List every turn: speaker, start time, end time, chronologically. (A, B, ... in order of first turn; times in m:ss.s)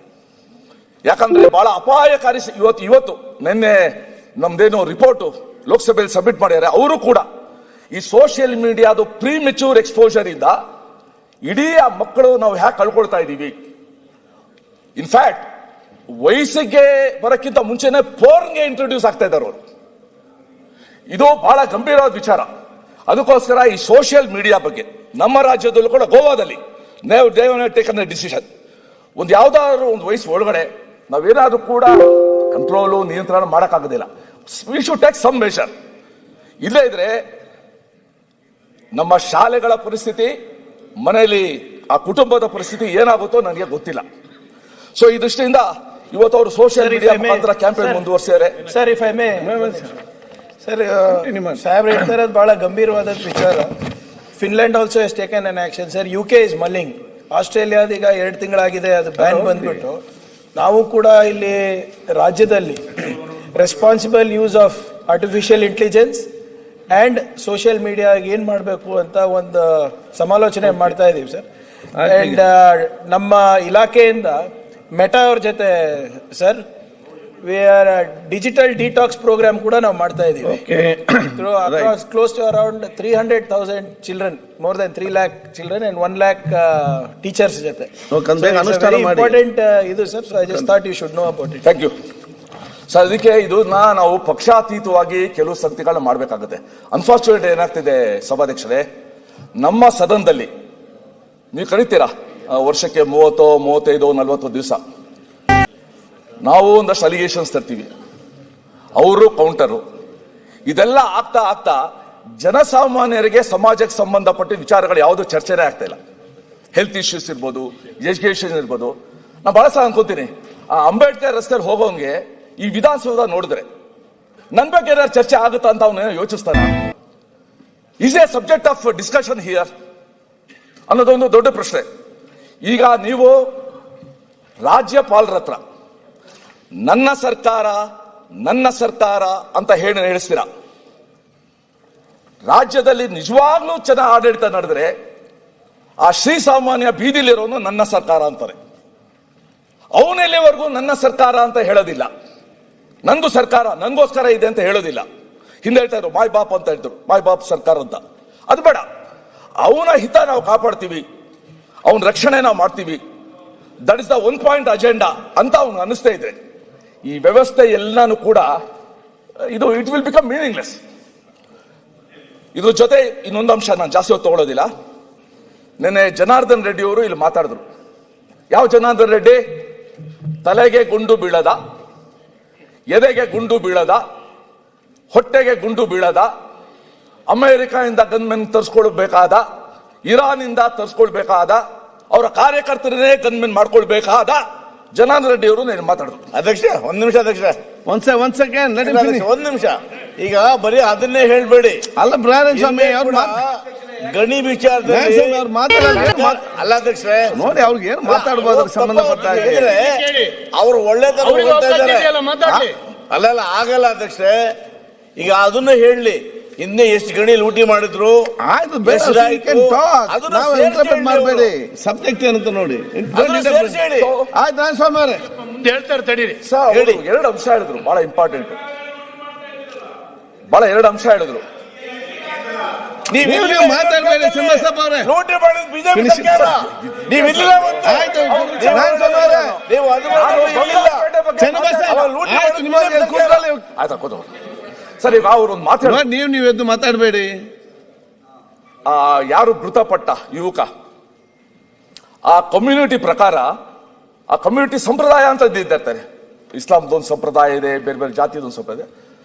0:01.1-0:07.2 A
0:07.9-0:10.6 A
0:11.5-0:13.6 A
0:15.0-0:15.5 A
0:16.2-0:19.6 A
0:21.1-0:22.5 A
0:23.1-0:28.4 A
0:29.2-0:32.0 A
0:32.5-0:35.7 A
0:36.6-0:37.2 A
0:38.9-0:40.3 A
0:41.0-0:44.0 A
0:45.0-0:48.6 A
0:46.8-0:48.0 B
0:48.7-0:50.0 B
0:49.4-0:49.9 C
0:50.6-0:53.7 B
0:51.0-0:51.6 C
0:54.4-1:00.0 B
0:59.2-0:59.8 C
1:00.6-1:06.3 B
1:06.9-1:11.5 B
1:12.0-1:12.4 C
1:12.0-1:14.4 B
1:14.9-1:16.6 B
1:17.4-1:20.6 B
1:20.4-1:21.9 C
1:21.4-1:31.6 B
1:28.1-1:29.4 C
1:31.6-1:31.9 A
1:32.9-1:38.8 A
1:39.6-1:40.5 A
1:41.5-1:44.8 A
1:46.4-1:47.9 A
1:49.0-1:49.8 A
1:50.7-1:51.8 A
1:52.4-1:56.0 A
1:56.7-2:03.7 A
2:04.5-2:06.7 A
2:08.0-2:09.7 A
2:10.9-2:11.8 A
2:12.6-2:13.4 A
2:14.6-2:15.6 A
2:16.8-2:17.8 A
2:18.4-2:20.5 A
2:22.5-2:24.9 A
2:26.0-2:28.6 A
2:30.0-2:32.1 A
2:33.0-2:35.0 A
2:35.6-2:38.8 A
2:39.6-2:41.0 A
2:41.9-2:43.0 A
2:43.9-2:46.3 A
2:47.0-2:48.5 A
2:49.5-2:50.8 A
2:52.6-2:54.7 A
2:55.8-2:57.6 A
2:58.5-2:59.4 A
3:00.4-3:01.6 A
3:02.9-3:04.0 A
3:05.1-3:06.3 A
3:07.3-3:09.4 A
3:10.1-3:14.4 A
3:14.9-3:16.2 A
3:16.3-3:17.6 D
3:17.9-3:19.3 C
3:18.8-3:21.9 D
3:22.0-3:23.4 C
3:22.5-3:27.4 D
3:24.8-3:26.4 C
3:27.3-3:29.8 C
3:28.0-3:32.2 D
3:31.2-3:32.7 E
3:33.1-3:34.5 D
3:35.2-3:38.3 D
3:38.4-3:43.8 C
3:38.8-3:41.5 D
3:43.1-3:44.1 D
3:44.0-3:44.3 A
3:44.4-3:45.2 C
3:45.6-3:46.4 E
3:46.4-3:48.6 A
3:46.7-3:47.0 D
3:50.5-3:51.4 A
3:53.1-4:01.1 D
3:53.2-3:55.1 C
3:55.9-3:56.6 C
3:57.1-3:59.5 A
3:57.8-3:59.6 C
4:00.1-4:02.0 A
4:01.4-4:03.6 C
4:01.9-4:03.4 D
4:03.8-4:04.3 A
4:05.0-4:06.0 A
4:05.8-4:07.4 C
4:08.9-4:10.7 A
4:12.3-4:13.5 A
4:14.3-4:18.9 A